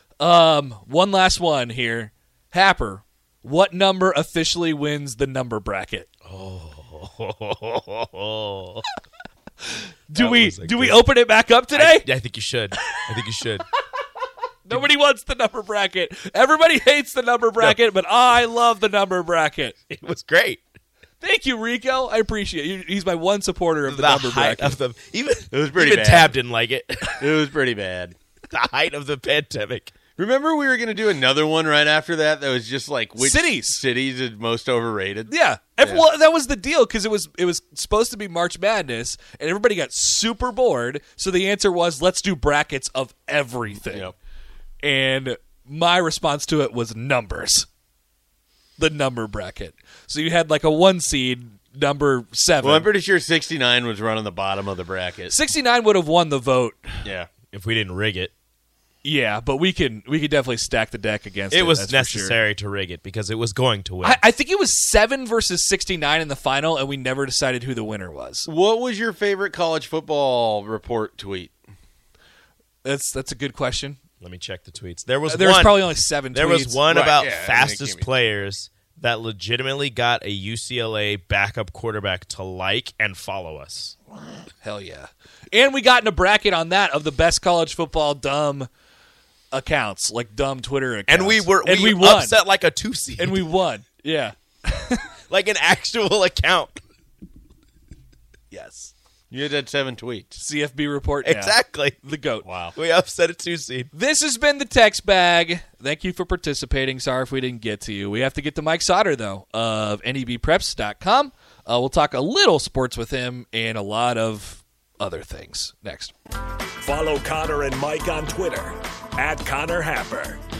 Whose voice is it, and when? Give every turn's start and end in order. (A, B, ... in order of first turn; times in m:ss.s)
0:00.2-0:06.1 A
0:06.2-0:08.8 B
0:09.7-0:12.1 A
0:10.1-0:11.0 B
0:11.7-0:13.6 B
0:14.6-0:19.7 A
0:19.9-0:20.6 B
0:21.2-0:24.8 A
0:23.9-0:27.2 B
0:25.5-0:26.4 C
0:27.2-0:28.1 C
0:28.5-0:29.9 B
0:30.2-0:36.0 C
0:33.2-0:33.8 A
0:35.3-0:44.1 A
0:43.8-0:44.1 C
0:44.8-0:47.7 A
0:48.8-0:52.9 A
0:52.6-0:55.4 C
0:55.3-0:57.0 A
0:57.0-0:57.3 C
0:57.5-0:58.3 B
0:59.0-1:02.4 A
1:01.5-1:04.2 B
1:04.0-1:08.5 A
1:08.4-1:11.5 C
1:12.8-1:14.0 A
1:14.2-1:24.0 B
1:15.3-1:16.8 A
1:16.9-1:18.1 C
1:24.6-1:28.7 A
1:29.5-1:32.4 A
1:31.1-1:33.4 B
1:33.2-1:35.0 A
1:35.3-1:36.8 B
1:38.5-1:38.9 A
1:39.3-1:40.4 C
1:40.4-1:42.4 A
1:41.2-1:42.0 B
1:42.4-1:42.7 C
1:42.7-1:43.9 B
1:43.9-1:56.1 A
1:56.8-2:00.4 D